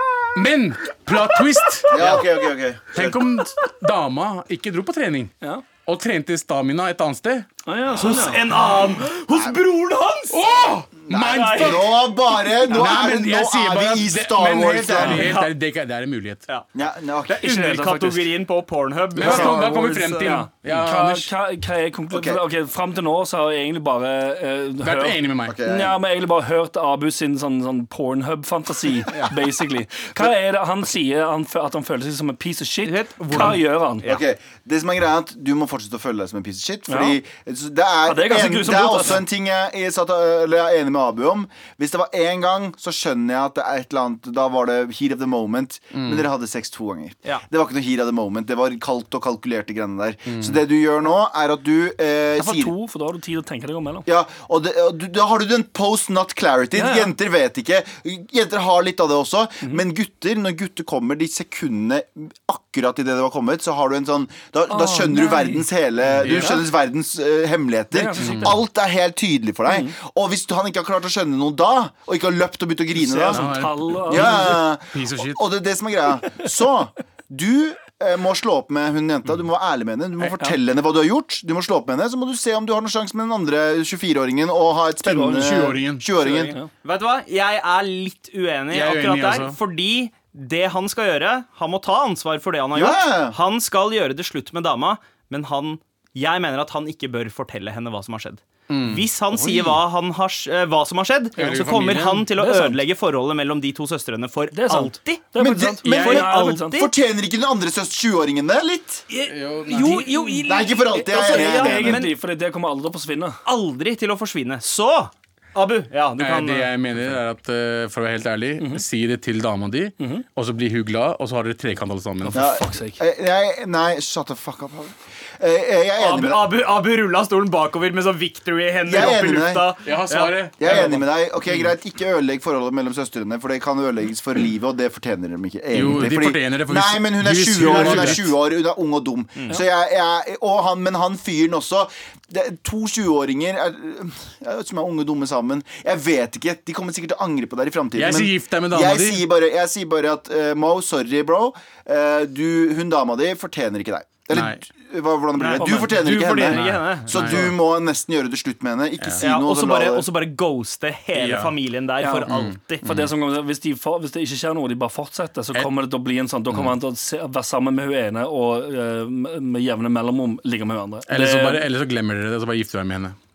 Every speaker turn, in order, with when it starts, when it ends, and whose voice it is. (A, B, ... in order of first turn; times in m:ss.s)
0:00.3-0:02.2 A
0:01.9-0:03.2 B
0:02.0-0:02.2 C
0:02.9-0:05.3 A
0:05.8-0:07.5 A
0:07.6-0:08.4 D
0:07.9-0:10.4 C
0:09.3-0:09.6 B
0:10.3-0:12.1 A
0:11.0-0:15.3 B
0:11.2-0:11.8 C
0:12.7-0:16.4 A
0:15.0-0:15.5 C
0:16.7-0:17.5 B
0:17.3-0:20.4 C
0:17.4-0:18.3 D
0:19.1-0:21.3 A
0:19.2-0:19.7 B
0:20.2-0:34.0 D
0:22.1-0:22.4 B
0:24.8-0:25.6 A
0:25.4-0:26.0 B
0:32.8-0:34.2 C
0:34.0-0:52.7 B
0:36.9-0:37.2 D
0:38.0-0:39.2 D
0:45.9-0:46.2 A
0:50.3-0:50.6 A
0:52.4-0:54.0 D
0:54.0-1:13.5 B
0:56.7-0:57.1 D
1:04.7-1:05.6 D
1:06.2-1:06.7 A
1:06.4-1:06.6 D
1:07.9-1:08.6 D
1:08.2-1:08.5 A
1:09.6-1:09.9 D
1:13.0-1:14.7 D
1:13.3-1:15.4 A
1:14.1-1:26.5 B
1:25.0-1:25.7 D
1:25.4-1:26.0 A
1:26.1-1:45.3 C
1:28.7-1:29.6 A
1:32.7-1:33.4 B
1:38.7-1:39.8 A
1:41.4-1:42.3 A
1:41.4-1:41.7 D
1:42.3-1:42.8 D
1:44.5-1:46.8 D
1:45.4-1:49.1 B
1:45.8-1:46.9 C
1:49.1-1:52.1 C
1:49.3-1:50.1 A
1:49.8-1:50.4 D
1:50.4-1:52.0 B
1:51.0-1:53.4 D
1:53.4-1:56.7 C
1:56.2-2:02.4 A
2:00.0-2:00.2 D
2:02.2-2:03.0 D
2:02.3-2:06.5 B
2:06.0-2:11.0 C
2:08.8-2:09.6 B
2:09.8-2:10.8 A
2:10.6-2:40.1 B
2:15.7-2:18.3 A
2:28.0-2:29.3 A
2:34.3-2:34.6 A
2:35.4-2:37.5 C
2:35.6-2:36.1 D
2:36.5-2:37.5 A
2:39.2-2:42.8 C
2:41.1-2:41.6 A
2:42.0-2:42.3 D
2:42.3-2:43.1 A
2:42.8-2:51.6 D
2:51.1-2:53.2 A